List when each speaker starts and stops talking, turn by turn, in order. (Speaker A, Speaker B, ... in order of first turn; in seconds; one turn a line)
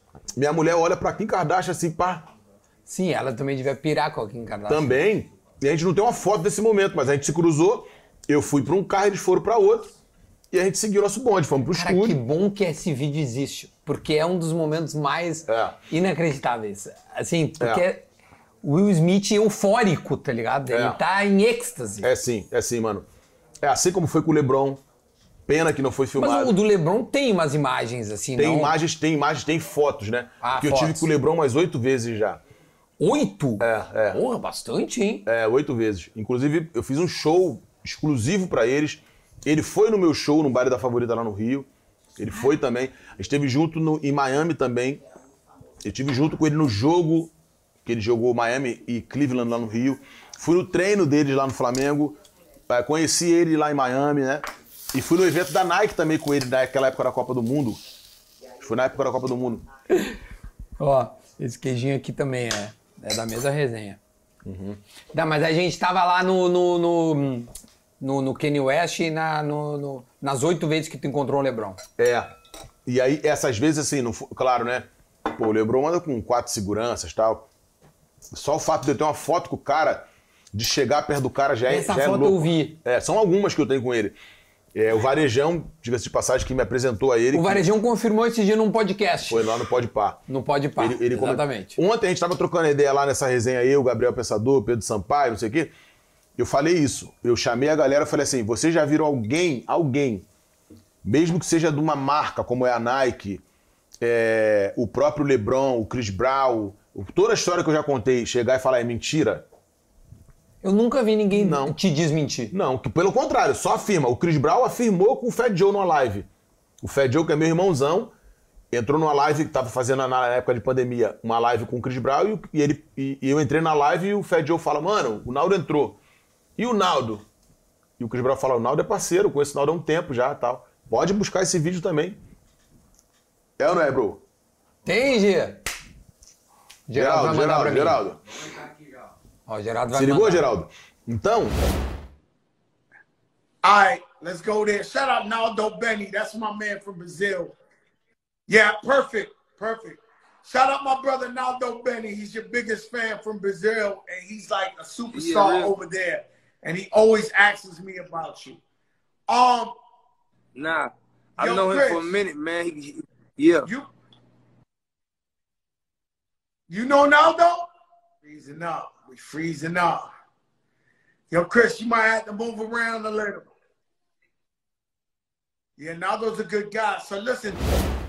Speaker A: 0.3-2.3
Speaker B: 2.9-5.0
Speaker A: 4.7-9.9
Speaker A: 10.5-12.2
Speaker B: 11.7-18.1
Speaker A: 15.5-15.8
Speaker A: 17.6-17.8
Speaker B: 18.6-22.1
Speaker A: 20.7-21.0
Speaker A: 22.0-23.1
Speaker A: 23.6-24.8
Speaker A: 25.5-26.5
Speaker B: 26.1-28.8
Speaker A: 28.4-32.4
Speaker B: 30.4-31.1
Speaker B: 33.0-35.3
Speaker A: 33.6-34.2
Speaker A: 35.2-45.0
Speaker A: 45.8-47.3
Speaker A: 47.8-52.1
Speaker A: 52.7-57.8
Speaker A: 58.6-59.6
Speaker B: 59.9-60.2
Speaker B: 60.8-64.0
Speaker A: 64.4-64.8
Speaker B: 65.1-71.8
Speaker A: 72.0-72.3
Speaker A: 72.8-77.5
Speaker A: 78.3-84.2
Speaker B: 81.7-82.8
Speaker A: 84.7-87.7
Speaker B: 87.3-89.5
Speaker A: 89.3-90.2
Speaker B: 90.3-91.8
Speaker A: 90.8-95.7
Speaker A: 96.4-100.2
Speaker A: 101.0-103.4
Speaker A: 104.0-109.4
Speaker B: 110.6-112.5
Speaker A: 111.3-111.8
Speaker A: 112.5-116.3
Speaker A: 116.8-118.1
Speaker A: 118.7-126.0
Speaker A: 126.6-127.2
Speaker A: 128.0-132.2
Speaker A: 133.6-134.2
Speaker B: 134.8-135.6
Speaker B: 136.9-138.0
Speaker A: 136.9-138.2
Speaker B: 139.4-140.5
Speaker A: 139.9-141.6
Speaker C: 143.6-147.5
Speaker C: 148.5-158.6
Speaker D: 155.1-155.7
Speaker C: 159.3-159.7
Speaker D: 160.6-163.7
Speaker C: 161.4-162.1
Speaker C: 166.7-167.7
Speaker C: 168.2-170.1
Speaker C: 171.3-173.5
Speaker C: 175.8-177.7